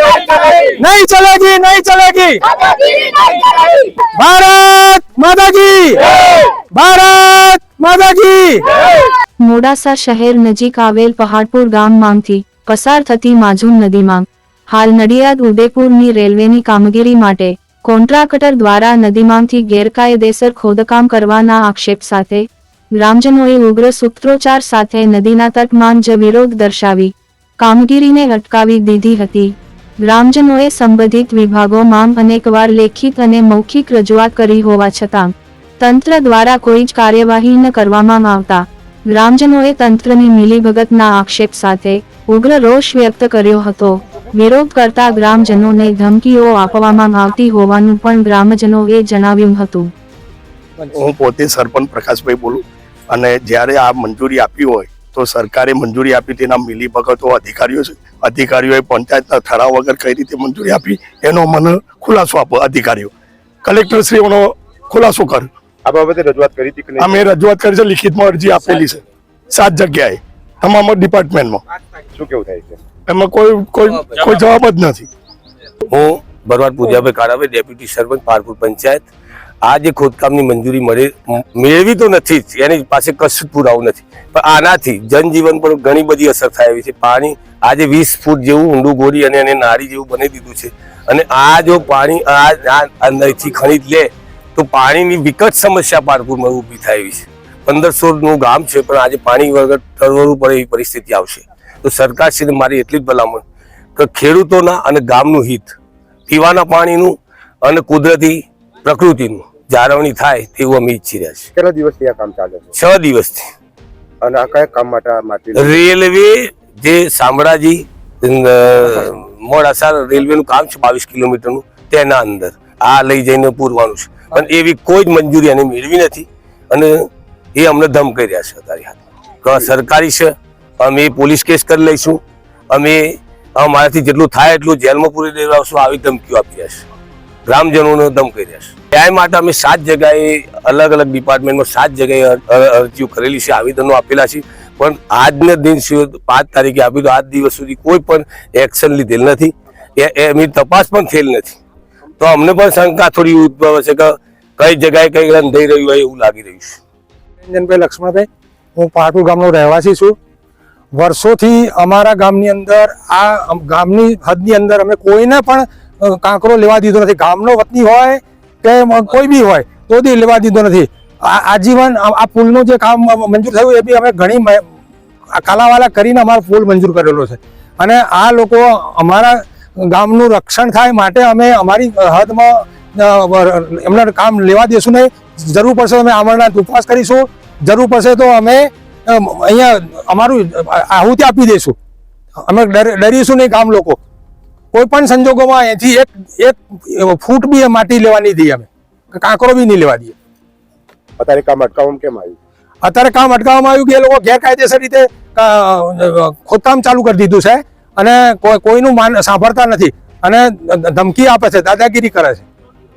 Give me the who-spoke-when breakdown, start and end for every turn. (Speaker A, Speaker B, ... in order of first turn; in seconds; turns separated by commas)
Speaker A: 0.3-2.4, Speaker A: 4.0-6.2, Speaker A: 6.7-8.7, Speaker B: 9.4-22.4, Speaker B: 23.0-49.9, Speaker C: 50.9-63.1, Speaker C: 63.6-65.5, Speaker D: 65.8-67.3, Speaker C: 67.0-71.6, Speaker D: 72.1-72.8, Speaker C: 73.1-75.1, Speaker E: 75.9-79.1, Speaker E: 79.6-103.4, Speaker E: 104.0-105.8, Speaker E: 106.3-111.5, Speaker D: 111.5-112.7, Speaker E: 112.7-113.5, Speaker D: 114.2-115.8, Speaker E: 115.5-132.2, Speaker E: 132.7-136.8, Speaker E: 137.5-151.6, Speaker E: 152.2-156.8, Speaker A: 157.4-160.2, Speaker A: 160.9-174.7, Speaker A: 175.3-191.8, Speaker A: 192.4-194.0, Speaker A: 194.7-200.1, Speaker D: 201.2-202.4, Speaker A: 202.8-212.4